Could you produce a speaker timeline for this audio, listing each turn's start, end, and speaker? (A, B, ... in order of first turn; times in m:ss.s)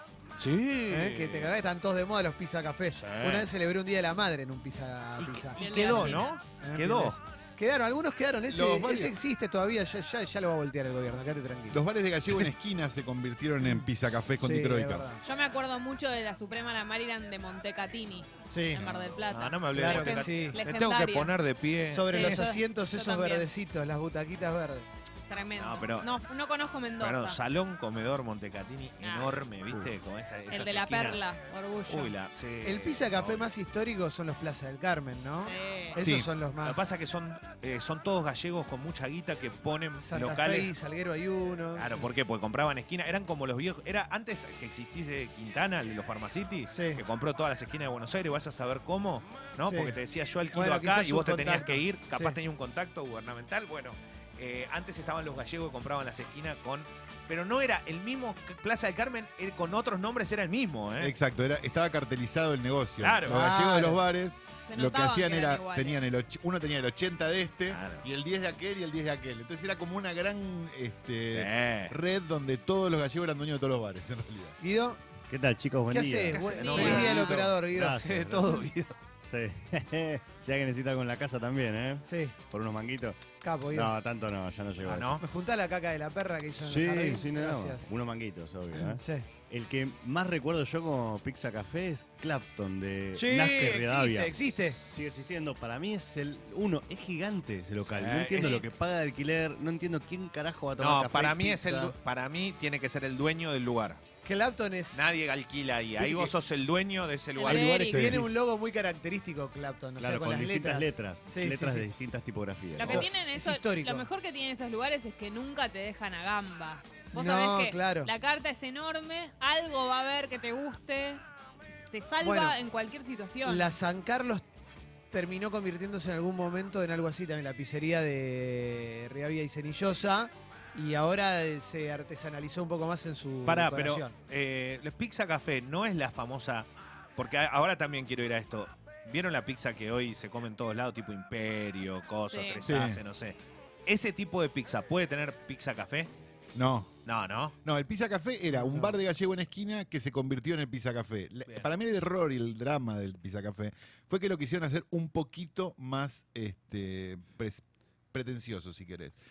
0:00.4-0:01.5 A
0:00.9-0:12.5 B
0:02.9-0:03.5 A
0:05.2-0:07.2 A
0:05.6-0:06.4 C
0:08.5-0:09.2 D
0:11.7-0:15.1 D
0:13.6-0:15.2 B
0:15.2-0:21.3 C
0:18.5-0:18.9 B
0:18.8-0:19.2 D
0:19.3-0:22.4 A
0:19.7-0:20.6 B
0:21.9-0:24.9 B
0:22.1-0:23.5 C
0:25.3-0:27.4 C
0:25.6-0:26.1 A
0:27.0-0:31.2 A
0:29.0-0:29.4 C
0:30.5-0:32.1 C
0:31.9-0:33.5 A
0:32.6-0:36.8 B
0:35.4-0:36.0 C
0:36.0-0:36.3 D
0:36.6-0:40.7 A
0:40.0-0:42.1 B
0:41.8-1:01.2 A
0:46.7-0:47.0 B
0:49.6-0:50.0 B
0:50.5-0:52.4 B
1:01.0-1:14.6 D
1:03.0-1:03.4 A
1:03.2-1:04.0 B
1:04.7-1:06.0 C
1:07.7-1:08.1 A
1:11.3-1:12.0 A
1:14.6-1:15.0 B
1:15.3-1:18.6 E
1:15.9-1:18.0 B
1:16.3-1:19.0 A
1:16.4-1:17.4 C
1:19.2-1:25.2 E
1:22.0-1:22.4 B
1:23.4-1:23.9 B
1:24.8-1:25.2 A
1:25.2-1:27.9 B
1:26.6-1:41.9 E
1:28.7-1:29.3 B
1:33.2-1:34.8 B
1:37.8-1:38.6 A
1:38.4-1:38.6 C
1:40.8-1:44.0 A
1:44.2-1:45.2 B
1:45.0-1:48.0 A
1:46.0-1:46.3 B
1:47.4-1:48.2 C
1:47.5-1:48.4 E
1:47.8-1:51.9 B
1:50.0-1:53.1 E
1:52.8-2:01.2 C
1:52.8-1:54.1 B
1:57.1-1:58.1 B
2:01.9-2:03.7 C
2:02.2-2:02.6 B
2:03.4-2:04.4 B
2:05.1-2:14.1 B
2:13.5-2:26.1 A
2:22.3-2:22.6 C
2:22.6-2:23.0 D
2:26.6-2:26.9 D
2:27.1-2:27.6 A
2:27.6-2:39.2 D
2:28.5-2:29.0 B